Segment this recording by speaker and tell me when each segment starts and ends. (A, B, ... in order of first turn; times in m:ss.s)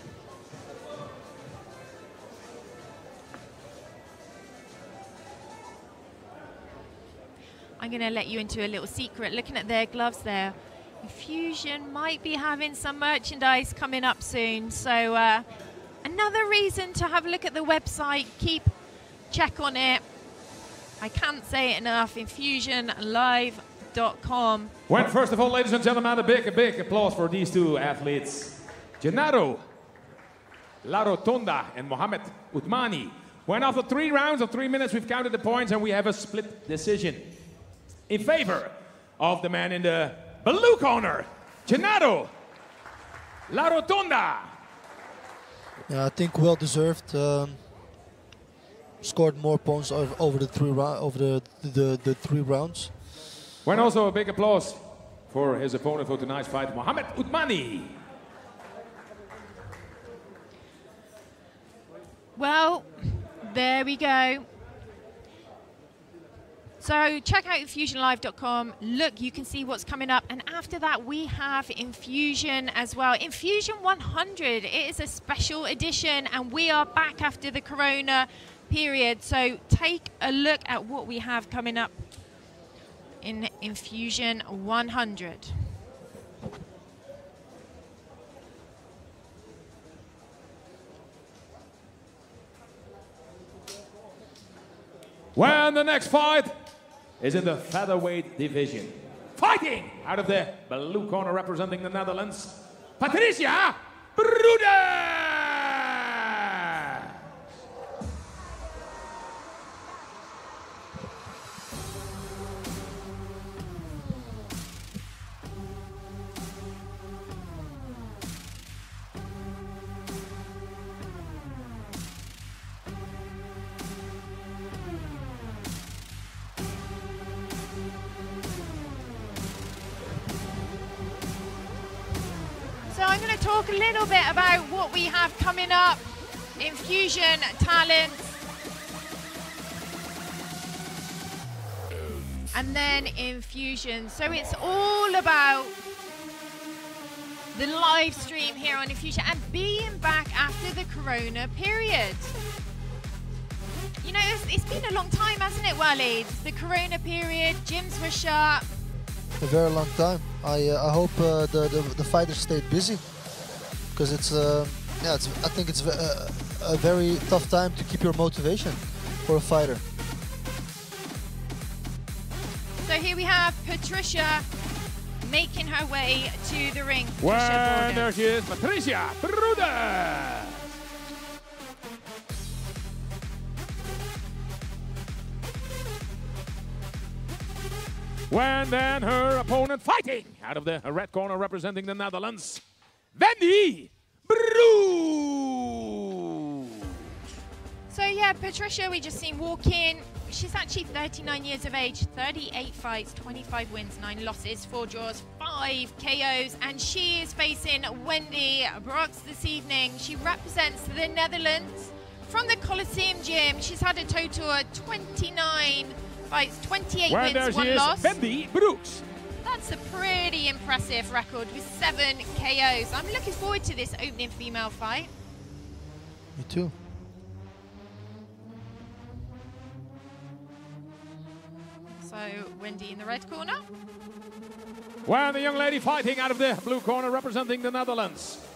0:07.8-0:15.5 A
0:16.0-0:18.7 A
0:19.3-0:20.0 A
0:21.0-0:24.8 A
0:24.9-0:29.6 B
0:30.8-0:37.3 B
0:38.1-0:42.3 B
0:43.5-0:44.5 B
0:45.9-0:47.6 C
0:49.0-0:52.9 C
0:53.6-0:54.8 B
0:55.3-0:58.0 B
1:02.4-1:04.4 A
1:06.8-1:22.1 A
1:23.2-1:25.7 A
1:35.4-1:36.5 B
1:37.2-1:46.9 B
2:12.9-2:18.4 A
2:22.5-2:25.8 A
2:27.5-2:32.3 A
2:34.0-2:38.7 A
2:39.4-2:43.3 C
2:43.9-2:49.8 C
2:52.8-2:54.5 A
2:55.2-2:58.1 A
2:57.2-3:00.6 B
3:08.3-3:12.6 B
3:13.2-3:16.5 B
3:17.9-3:38.2 A
3:37.1-3:39.0 B
3:39.4-3:45.1 A
3:46.4-3:46.8 C
3:52.0-3:53.6 A
3:55.0-3:58.4 B